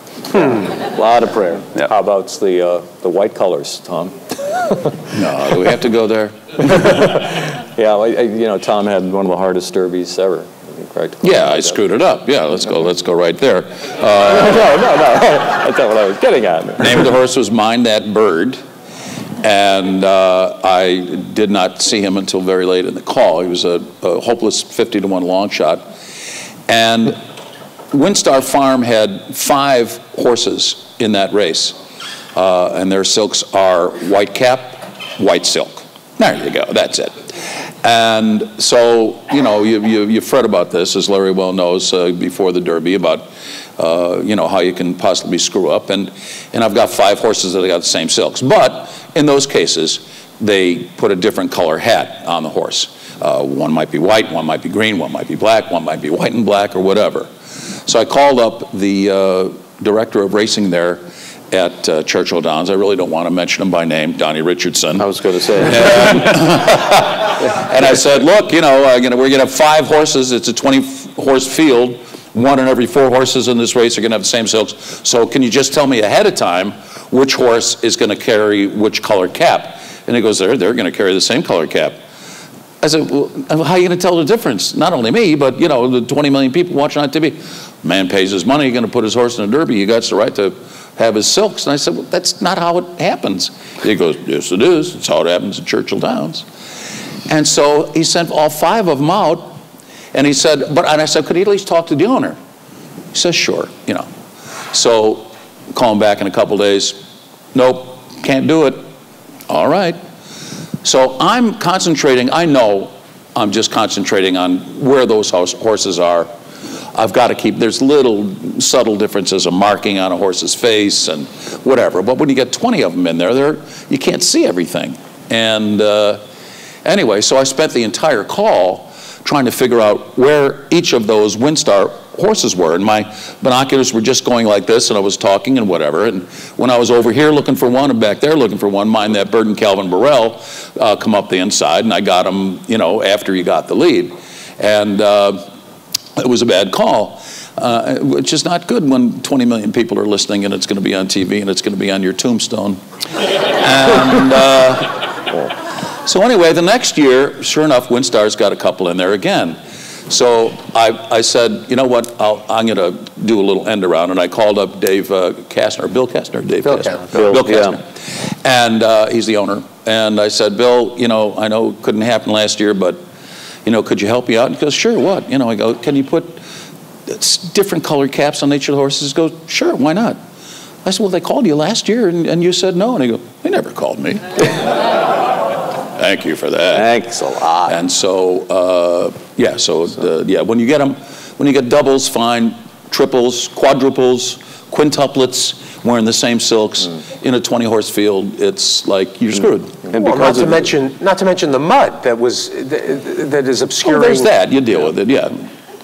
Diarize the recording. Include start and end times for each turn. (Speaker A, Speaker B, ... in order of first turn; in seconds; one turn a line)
Speaker A: 0.3-1.7
Speaker B: 1.8-5.1
Speaker C: 5.1-6.9
Speaker B: 6.7-11.8
Speaker C: 11.2-14.6
Speaker B: 14.2-17.0
Speaker C: 16.8-18.6
Speaker C: 19.4-25.8
Speaker C: 26.7-27.2
Speaker C: 27.9-31.8
Speaker C: 32.3-37.2
Speaker C: 37.8-57.3
Speaker C: 57.9-82.0
Speaker A: 65.0-66.2
Speaker C: 82.8-96.5
Speaker C: 97.3-99.6
Speaker C: 100.1-102.4
Speaker C: 103.1-104.1
Speaker C: 104.7-108.8
Speaker C: 109.5-110.0
Speaker C: 110.8-116.3
Speaker C: 116.9-126.2
Speaker C: 126.8-145.4
Speaker C: 146.2-155.5
Speaker C: 156.0-159.6
Speaker C: 160.1-173.0
Speaker D: 166.7-167.0
Speaker A: 167.1-167.8
Speaker C: 173.6-176.4
Speaker C: 177.1-180.2
Speaker C: 180.8-184.6
Speaker C: 185.9-186.9
Speaker A: 186.7-187.8
Speaker C: 187.7-199.9
Speaker A: 199.9-200.6
Speaker D: 200.0-204.3
Speaker C: 203.8-205.5